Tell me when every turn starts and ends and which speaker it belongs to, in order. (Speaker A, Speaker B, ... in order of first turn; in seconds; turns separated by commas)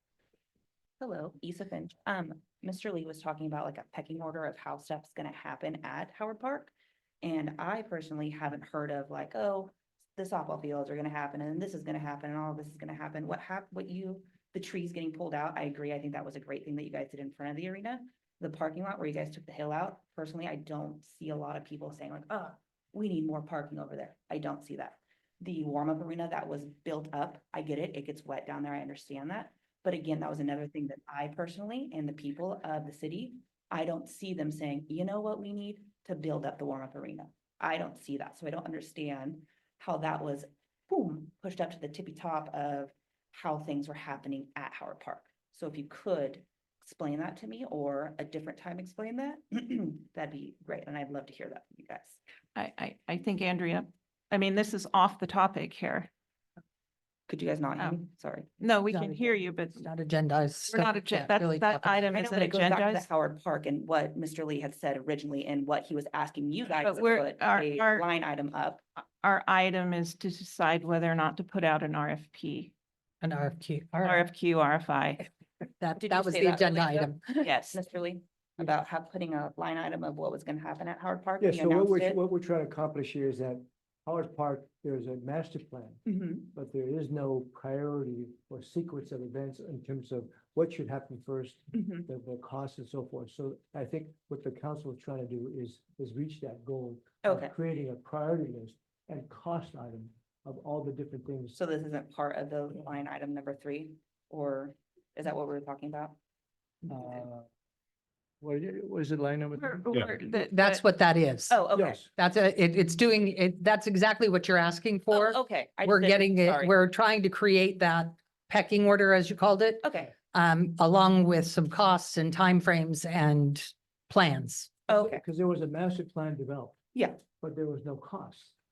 Speaker A: 1.0-52.2, Speaker B: 52.5-56.1, Speaker A: 57.3-58.6, Speaker B: 58.6-59.9, Speaker C: 58.9-62.1, Speaker B: 60.7-63.1, Speaker A: 62.1-68.8, Speaker B: 66.8-68.0, Speaker B: 69.2-72.7, Speaker C: 73.2-74.3, Speaker B: 74.0-75.3, Speaker C: 75.8-77.2, Speaker A: 76.0-82.2, Speaker B: 77.4-77.8, Speaker D: 81.4-101.6, Speaker A: 86.1-86.5, Speaker A: 91.7-92.1, Speaker A: 97.2-97.5, Speaker A: 101.5-106.2, Speaker D: 106.8-107.5, Speaker D: 108.4-110.0, Speaker B: 109.6-110.8, Speaker C: 110.3-124.7, Speaker A: 111.5-112.0, Speaker D: 111.7-112.1, Speaker A: 115.1-116.7, Speaker A: 119.8-120.2, Speaker A: 124.9-125.2, Speaker D: 124.9-126.8, Speaker A: 127.0-127.2, Speaker D: 127.4-128.6